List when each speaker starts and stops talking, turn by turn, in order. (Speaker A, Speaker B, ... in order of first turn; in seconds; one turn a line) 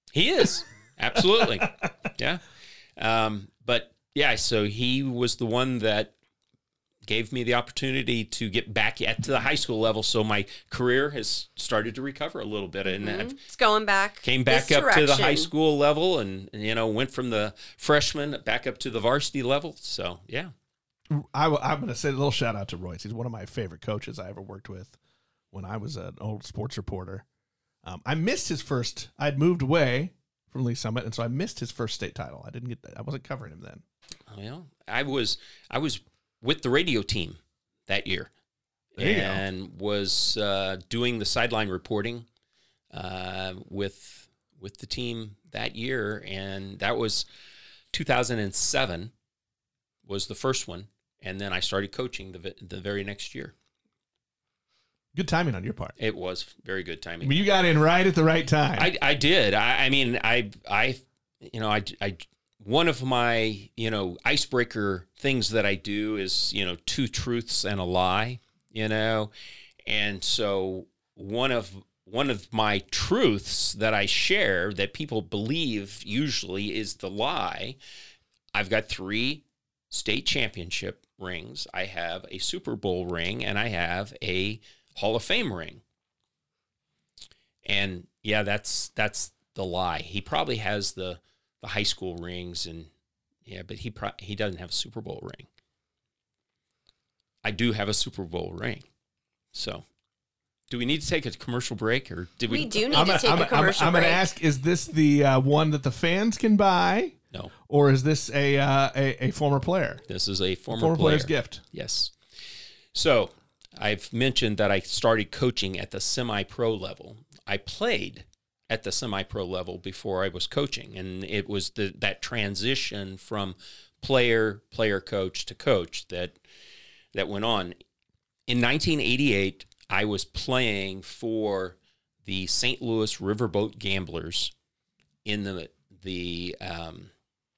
Speaker A: 0.1-2.4
Speaker B: 1.2-1.9
Speaker A: 3.0-6.1
Speaker A: 7.0-13.3
Speaker C: 12.9-15.5
Speaker A: 14.2-20.5
Speaker B: 21.1-25.0
Speaker B: 25.5-27.2
Speaker B: 27.8-33.8
Speaker A: 34.3-38.3
Speaker A: 39.0-42.3
Speaker B: 39.0-39.4
Speaker A: 42.9-47.3
Speaker A: 47.9-49.1
Speaker A: 50.0-53.5
Speaker B: 55.1-55.9
Speaker A: 56.0-57.5
Speaker B: 57.2-58.9
Speaker A: 58.8-69.3
Speaker A: 69.9-77.8
Speaker A: 78.5-85.8
Speaker A: 87.7-92.9
Speaker A: 93.5-95.5
Speaker A: 97.4-98.8
Speaker A: 99.5-99.8
Speaker A: 100.7-103.2
Speaker C: 102.5-104.3
Speaker B: 102.9-110.0
Speaker A: 110.1-112.2
Speaker B: 110.7-111.6
Speaker A: 112.9-126.4
Speaker A: 127.1-127.8
Speaker A: 128.5-134.5
Speaker A: 135.2-137.1